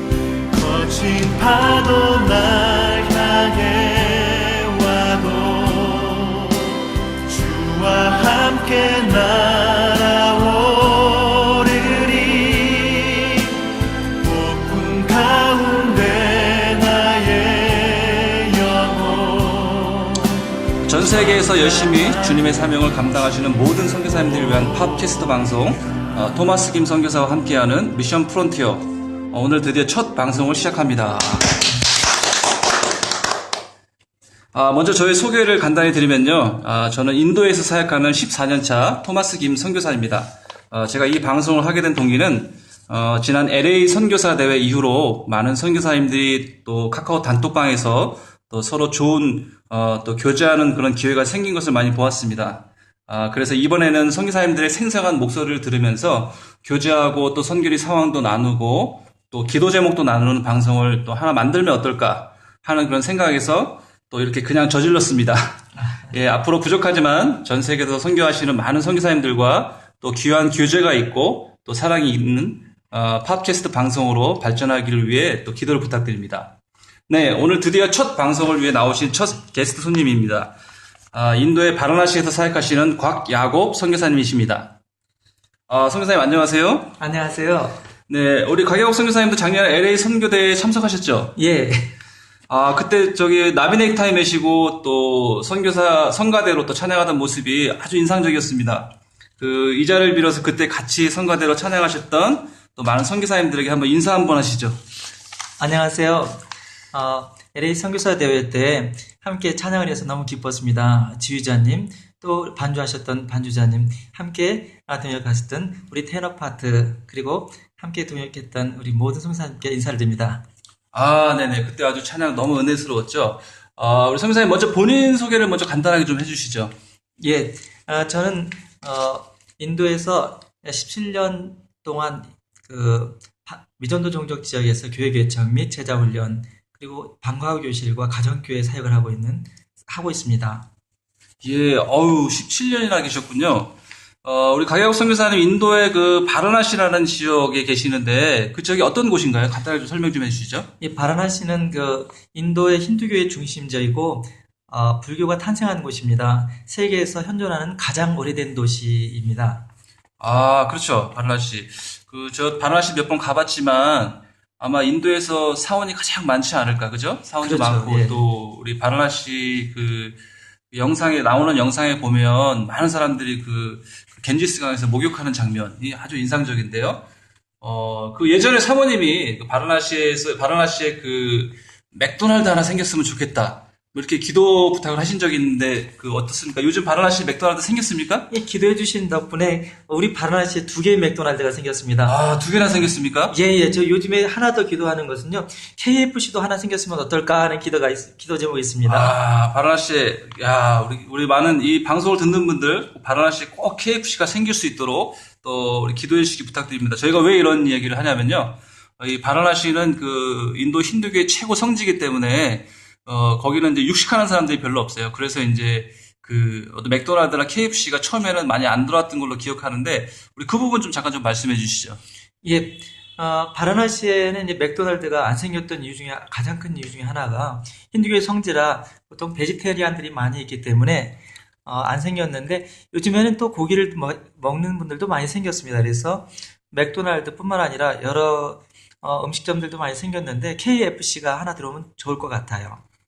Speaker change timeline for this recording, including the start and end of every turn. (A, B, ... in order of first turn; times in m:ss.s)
0:00.5-0:13.5 A
0:14.2-0:20.4 A
0:20.8-0:31.7 B
0:21.3-0:22.4 A
0:34.5-1:16.6 B
1:05.8-1:06.1 C
1:17.1-1:20.5 B
1:21.1-1:24.8 B
1:25.7-1:27.0 B
1:27.0-1:27.8 C
1:28.1-1:31.4 B
1:31.4-1:31.9 C
1:32.5-1:44.8 B
1:45.6-2:00.4 C
2:00.9-2:06.7 B
2:07.2-2:20.7 C
2:21.4-2:30.7 B
2:30.8-2:39.6 C
2:40.2-2:50.2 B
2:47.4-2:48.2 C
2:50.7-2:57.0 B
2:57.6-3:08.3 B
3:08.3-3:12.1 C
3:12.0-3:13.3 B
3:13.3-3:19.1 C
3:18.8-3:42.0 B
3:42.4-4:02.8 C